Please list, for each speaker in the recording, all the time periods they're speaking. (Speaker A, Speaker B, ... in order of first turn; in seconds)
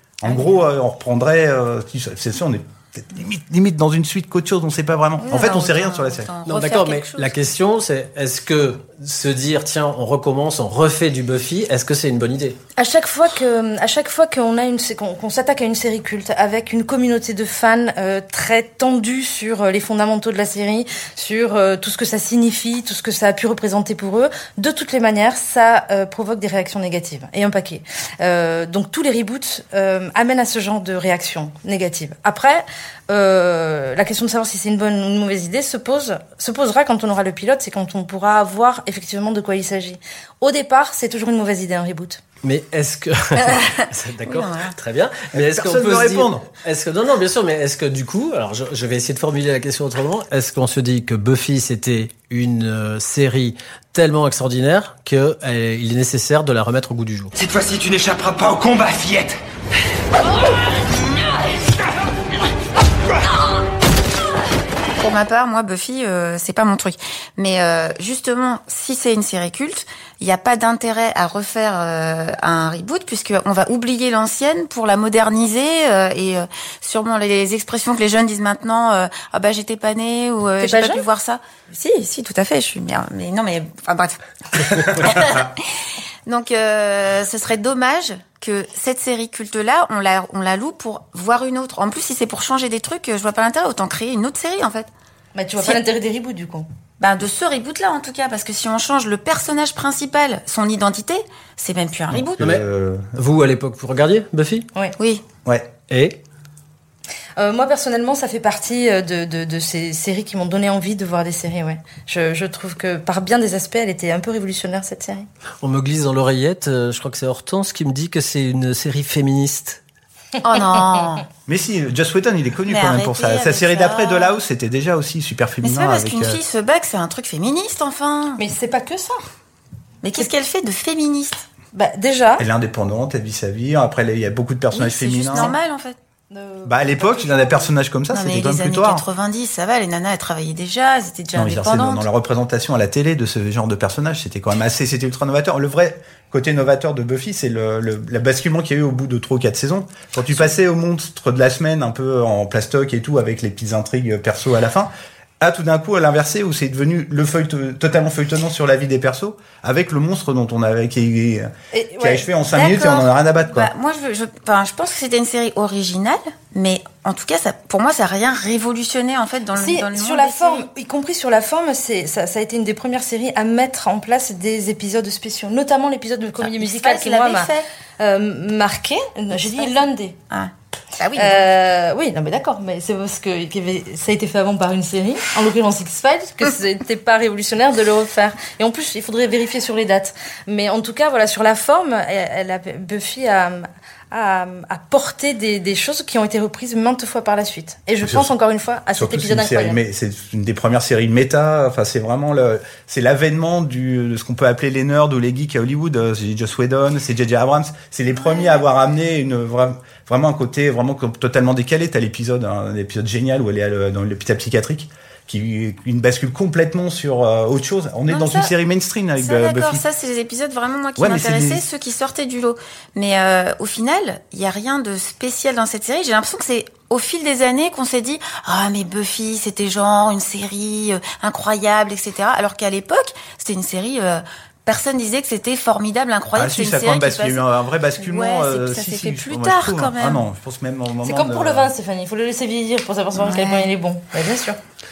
Speaker A: 0.2-6.3, 45.3-46.5, 102.1-103.2, 105.4-105.7, 121.5-126.4, 132.4-135.6, 136.6-139.1, 141.3-163.7, 198.9-219.8, 221.0-221.7, 236.3-241.7
Speaker B: 0.3-0.5, 5.2-7.4, 43.4-44.7, 65.0-85.7, 86.2-94.9, 97.0-102.4, 105.0-105.2, 120.4-121.2, 122.7-124.3, 125.6-128.4, 130.0-131.4, 134.7-136.0, 138.1-142.0, 162.5-170.7, 176.4-177.7, 179.4-181.5, 208.2-208.6, 218.1-218.5, 219.2-237.4, 238.0-240.2, 243.1-243.7
Speaker C: 6.5-12.6, 42.4-57.3, 102.4-104.7, 105.9-106.2, 115.6-119.8
Speaker D: 12.8-42.2, 80.6-81.0, 95.3-96.7, 107.4-115.2, 128.4-129.2, 131.7-132.4, 136.3-137.7, 161.7-162.3, 169.5-180.2, 181.2-199.8, 241.0-244.6
Speaker E: 57.4-59.4